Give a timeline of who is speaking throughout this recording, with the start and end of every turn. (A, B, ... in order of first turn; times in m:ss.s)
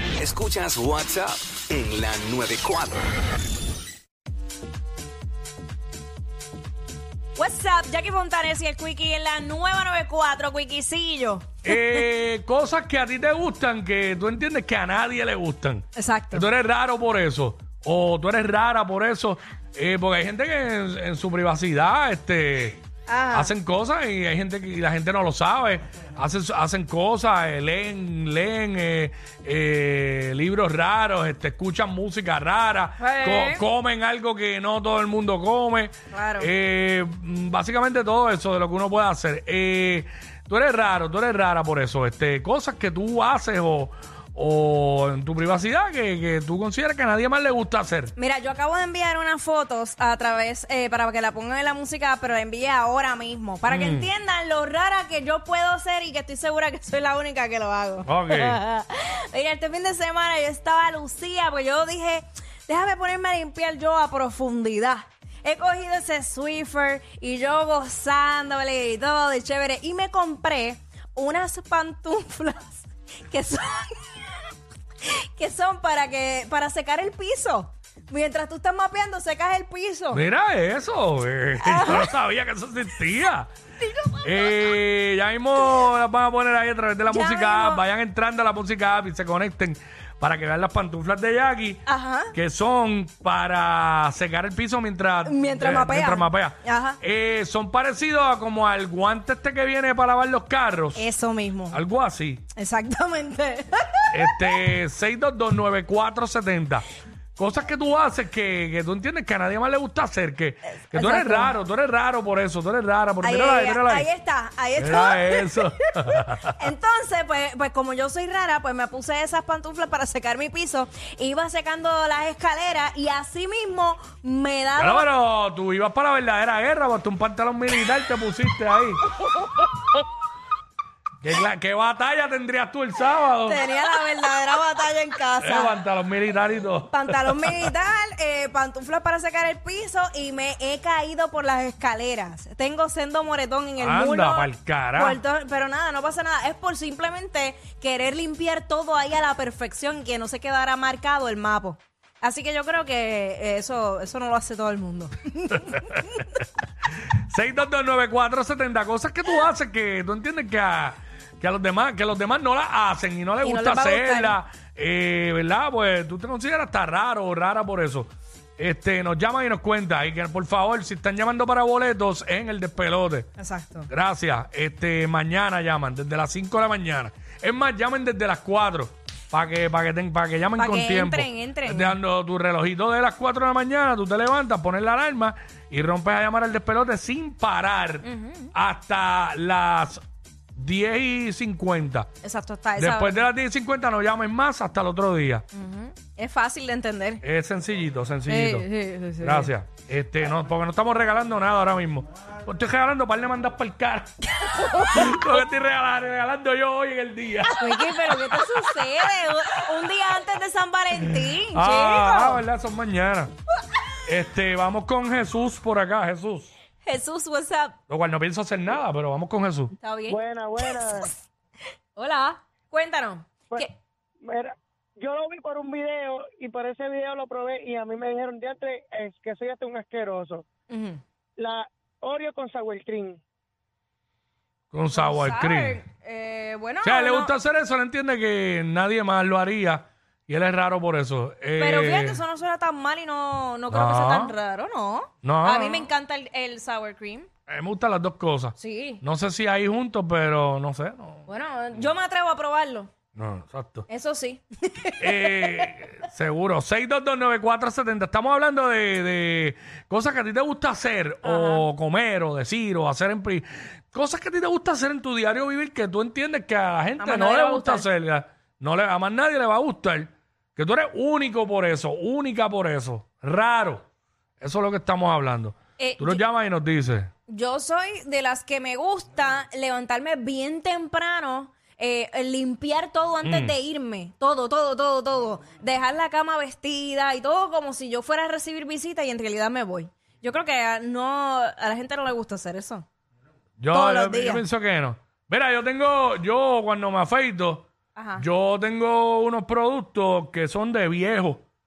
0:00.1-0:03.1 A
0:07.4-0:12.0 B
0:11.6-0:22.8 C
0:16.0-0:16.5 B
0:23.1-0:23.5 B
0:23.3-0:48.1 C
0:33.0-0:33.6 B
0:36.1-0:36.5 B
0:48.2-1:14.5 B
0:53.7-0:54.1 C
0:58.0-0:58.6 C
1:15.0-1:20.2 B
1:20.1-1:23.5 C
1:21.6-1:22.1 B
1:23.8-1:24.6 B
1:24.2-1:41.1 C
1:27.0-1:27.8 B
1:31.9-1:32.3 B
1:35.2-1:37.0 B
1:41.0-1:41.8 B
1:41.7-1:42.4 C
1:42.6-1:44.6 B
1:44.1-1:46.8 C
1:47.4-1:54.1 C
1:50.8-1:51.5 B
1:53.2-2:05.1 B
1:54.8-1:56.6 C
2:04.8-2:09.0 C
2:11.2-2:13.6 C
2:13.4-2:15.8 B
2:15.4-2:17.7 C
2:16.9-2:36.4 B
2:23.8-2:25.2 C
2:35.6-2:36.4 C
2:37.1-2:53.3 C
2:43.4-2:44.4 B
2:53.4-2:53.9 B
2:53.9-3:10.0 C
3:00.6-3:02.0 B
3:08.0-3:08.5 B
3:10.6-3:12.1 C
3:12.2-3:13.2 B
3:12.8-3:15.4 C
3:15.5-3:17.2 B
3:17.2-3:18.7 C
3:18.3-3:19.5 B
3:19.2-3:24.2 C
3:24.4-3:25.2 B
3:24.8-3:28.9 C
3:27.5-3:32.4 B
3:31.0-3:33.3 C
3:34.1-3:36.5 C
3:36.8-3:37.8 B
3:37.9-3:39.7 C
3:39.8-3:41.1 B
3:40.1-3:41.1 D
3:42.0-3:43.7 B
3:44.2-3:50.4 D
3:50.7-3:51.0 B
3:51.4-3:53.2 D
3:54.7-3:55.8 C
3:54.9-3:57.3 B
3:56.8-4:02.2 C
4:01.6-4:07.3 B
4:03.7-4:04.3 C
4:05.2-4:05.9 C
4:07.5-4:11.3 C
4:08.6-4:09.0 B
4:11.3-4:12.9 B
4:13.1-4:13.9 C
4:13.9-4:15.7 B
4:15.0-4:33.8 C
4:21.2-4:21.7 B
4:27.0-4:27.9 B
4:34.4-4:37.1 C
4:35.8-4:36.2 B
4:37.3-4:52.8 B
4:43.2-4:43.6 C
4:53.6-5:01.4 C
4:53.7-4:54.4 B
4:57.9-4:58.2 B